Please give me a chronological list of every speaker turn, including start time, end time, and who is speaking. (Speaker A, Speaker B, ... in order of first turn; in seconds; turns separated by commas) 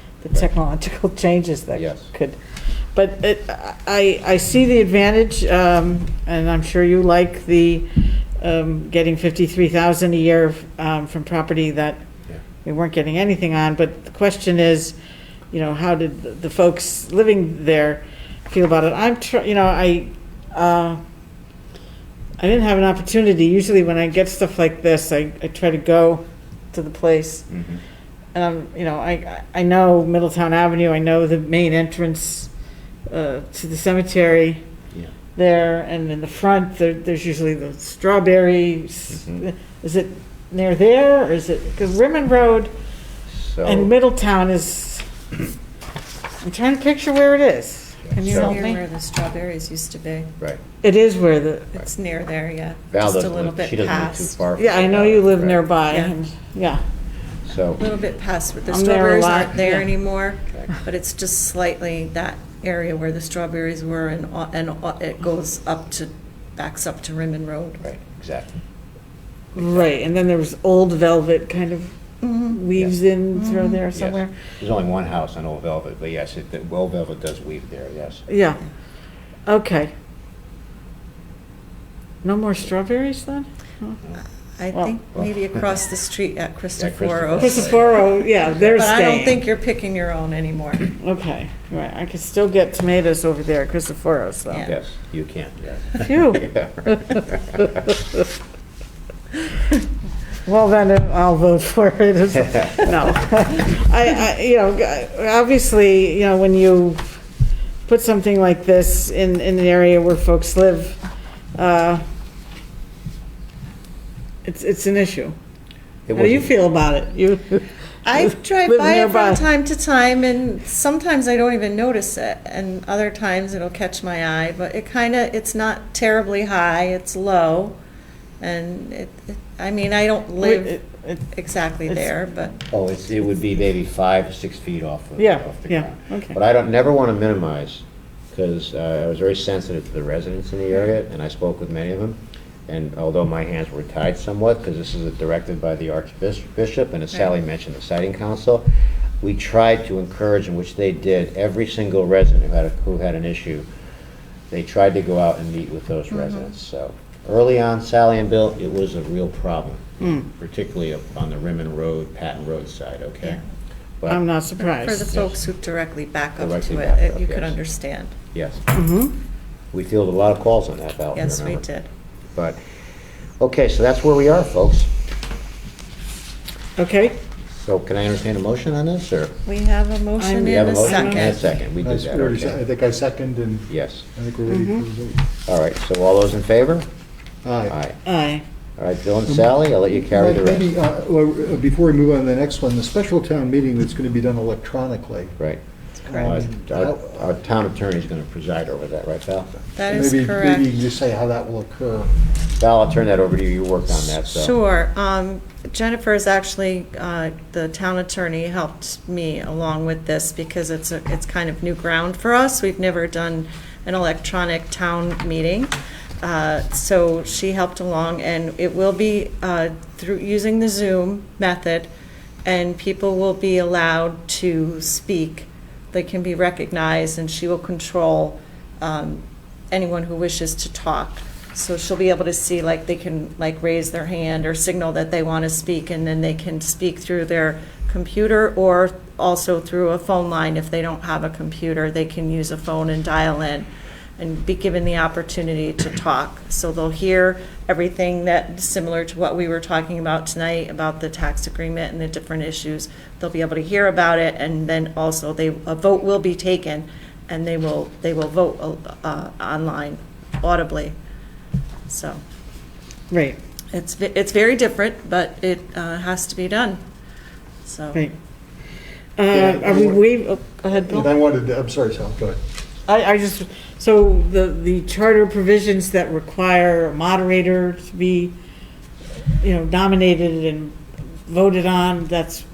Speaker A: 0.2-2.4, Speaker B: 1.7-2.1, Speaker A: 2.9-12.0, Speaker A: 12.6-14.9, Speaker A: 15.5-21.0, Speaker A: 22.4-27.5, Speaker B: 27.5-27.8, Speaker A: 28.3-32.5, Speaker A: 33.1-34.6, Speaker A: 35.3-42.7, Speaker B: 39.1-39.5, Speaker B: 43.3-43.9, Speaker A: 43.6-45.0, Speaker A: 46.4-48.8, Speaker B: 48.0-48.6, Speaker C: 48.3-50.3, Speaker A: 50.8-51.7, Speaker C: 51.7-54.4, Speaker B: 52.9-55.6, Speaker A: 54.6-56.8, Speaker C: 55.9-56.1, Speaker B: 57.5-57.8, Speaker C: 57.8-67.9, Speaker A: 58.7-59.9, Speaker B: 67.8-68.6, Speaker A: 69.5-72.0, Speaker C: 72.2-72.6, Speaker A: 72.5-74.3, Speaker C: 73.3-73.8, Speaker B: 73.9-78.2, Speaker A: 78.3-78.6, Speaker A: 79.5-79.9, Speaker A: 82.2-84.0, Speaker C: 84.6-87.9, Speaker B: 86.8-87.9, Speaker A: 87.4-89.4, Speaker C: 88.6-90.9, Speaker A: 91.0-94.7, Speaker B: 94.7-97.7, Speaker A: 96.0-96.5, Speaker A: 100.4-107.2, Speaker A: 107.8-111.0, Speaker A: 111.5-112.0, Speaker A: 114.4-115.3, Speaker B: 116.1-116.5, Speaker A: 116.1-117.6, Speaker C: 118.0-127.8, Speaker A: 118.2-119.4, Speaker C: 128.4-132.5, Speaker A: 130.4-131.2, Speaker B: 132.7-148.7, Speaker A: 135.2-136.4, Speaker B: 149.2-153.7, Speaker B: 154.5-163.4, Speaker C: 156.1-156.5, Speaker A: 160.0-160.3, Speaker A: 164.1-165.1, Speaker C: 164.6-168.1, Speaker B: 165.1-165.3, Speaker B: 166.4-167.6, Speaker B: 168.3-168.6, Speaker A: 168.7-169.1, Speaker B: 169.7-171.6, Speaker C: 171.1-171.9, Speaker B: 173.4-174.9, Speaker A: 176.8-177.2, Speaker B: 177.6-179.3, Speaker C: 179.4-181.6, Speaker A: 180.2-181.5, Speaker B: 180.4-182.6, Speaker D: 181.8-185.2, Speaker B: 183.7-184.1, Speaker A: 184.5-184.8, Speaker B: 185.5-186.9, Speaker D: 187.4-187.8, Speaker B: 187.7-188.0, Speaker A: 188.0-188.4, Speaker B: 188.8-190.7, Speaker D: 190.1-195.3, Speaker C: 196.0-196.3, Speaker D: 196.1-197.3, Speaker B: 196.1-199.5, Speaker C: 199.8-200.8, Speaker D: 199.9-202.1, Speaker B: 202.6-204.5, Speaker C: 204.0-221.9, Speaker C: 222.4-260.9, Speaker C: 261.9-262.2, Speaker A: 263.1-263.4, Speaker C: 263.7-266.8, Speaker C: 267.6-268.0, Speaker A: 269.2-271.1, Speaker D: 269.3-270.1, Speaker D: 270.9-272.4, Speaker A: 272.9-278.3, Speaker A: 279.4-282.4